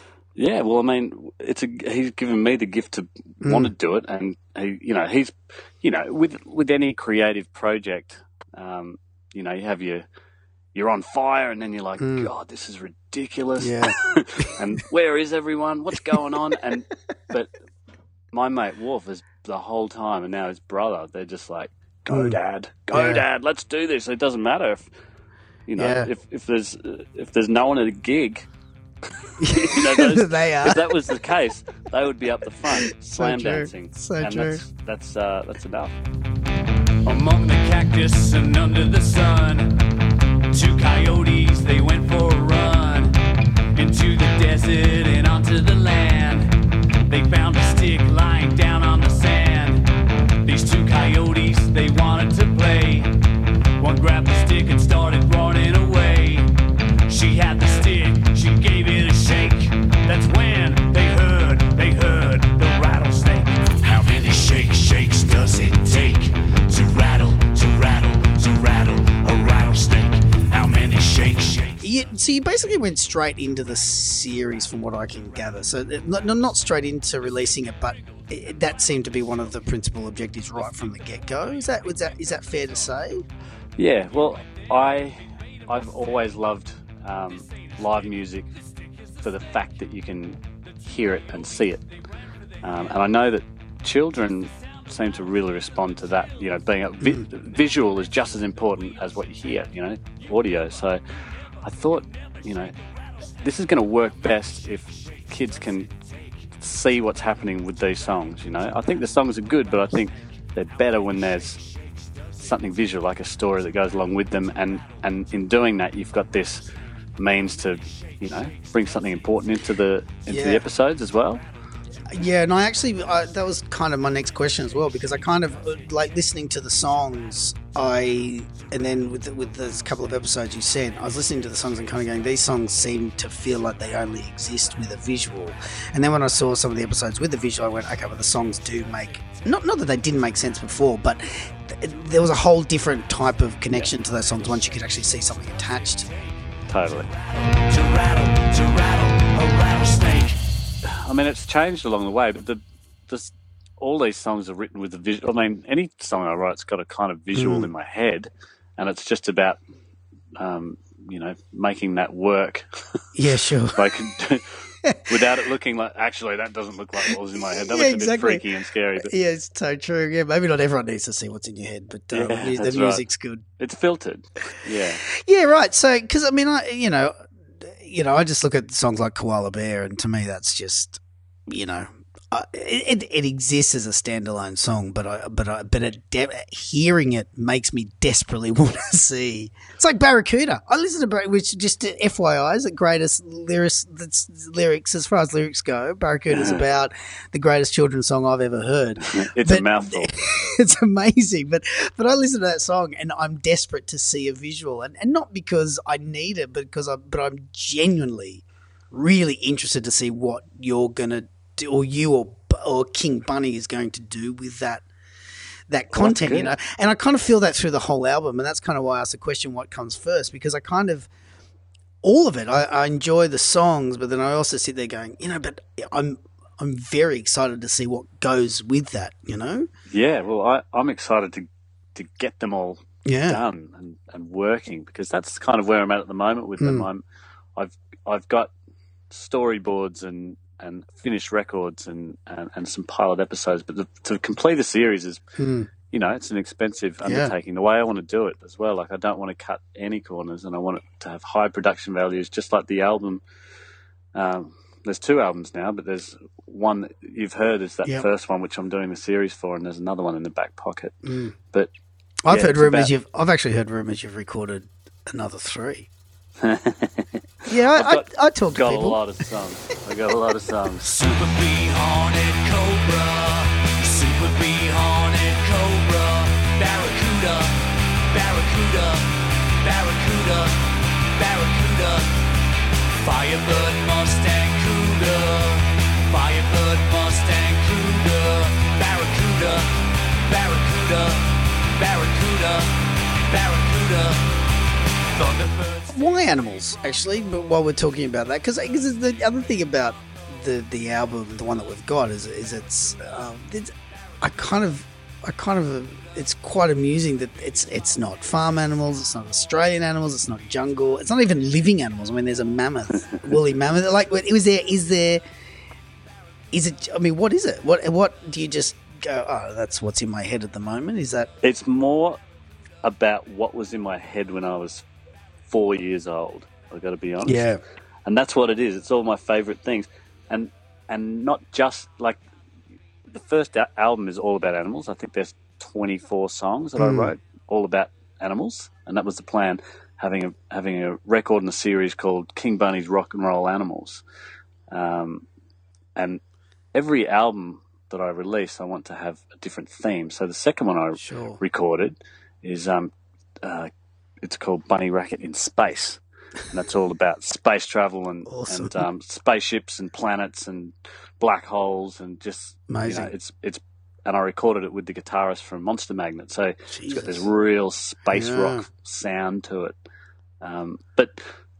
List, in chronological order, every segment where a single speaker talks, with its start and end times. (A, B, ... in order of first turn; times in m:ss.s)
0:00.4-0:10.0 A
0:03.4-0:03.7 B
0:10.7-0:17.5 A
0:12.0-0:12.3 B
0:13.6-0:14.6 B
0:18.3-0:24.9 A
0:22.1-0:22.4 B
0:22.9-0:23.2 B
0:25.7-0:28.5 A
0:25.8-0:26.1 B
0:29.4-0:30.8 B
0:29.4-0:35.9 A
0:32.7-0:34.6 B
0:37.0-0:39.8 C
0:40.5-0:43.2 C
0:43.7-0:49.9 C
0:50.4-0:53.2 C
0:53.8-0:56.5 C
0:57.0-1:11.8 C
1:11.8-1:23.2 B
1:23.8-1:28.5 A
1:29.2-1:31.8 A
1:32.6-1:41.0 A
1:41.6-1:42.7 A
1:43.4-1:45.9 A
1:46.6-1:51.6 A
1:52.4-1:56.6 A
1:57.2-2:01.4 A
2:00.3-2:00.6 B
2:02.1-2:26.1 B
2:26.7-2:27.1 A
2:27.6-2:30.4 C
2:30.8-2:39.6 A
2:37.3-2:37.7 B
2:40.4-2:43.0 A
2:43.2-2:43.8 B
2:43.7-2:49.1 A
2:47.3-2:48.4 B
2:49.0-2:53.4 B
2:52.1-2:53.0 A
2:53.6-2:55.0 A
2:55.1-3:34.8 B
3:16.3-3:16.6 A
3:19.1-3:20.1 A
3:35.7-3:41.1 B
3:35.9-3:36.5 A
3:42.0-3:49.7 B
3:49.9-3:57.0 A
3:53.0-3:53.4 B
3:56.6-3:56.9 B
3:57.6-3:58.5 A
3:59.1-4:05.2 A
4:05.4-4:05.7 B
4:05.9-4:13.2 A
4:07.0-4:07.3 B
4:14.1-4:21.0 A
4:21.0-4:21.3 B
4:22.2-4:25.9 B
4:22.3-4:22.9 A
4:26.4-4:30.9 A
4:27.5-4:29.0 B
4:30.8-4:42.3 C
4:42.9-4:54.4 C
4:55.1-4:55.9 C
4:55.9-5:15.2 B
5:16.5-5:21.3 B
5:21.4-5:22.2 A
5:22.8-5:24.8 A
5:25.5-5:27.5 A
5:27.2-5:27.6 B
5:28.0-5:32.2 A
5:33.1-5:44.0 A
5:36.8-5:37.1 B
5:44.7-5:45.2 A
5:46.0-5:46.2 A
5:46.7-5:52.9 A
5:51.0-5:51.4 B
5:53.4-5:53.7 A
5:54.2-6:09.7 A
5:58.3-5:58.8 B
6:02.7-6:03.1 B
6:06.7-6:07.3 B
6:08.1-6:08.6 B
6:10.4-6:11.2 A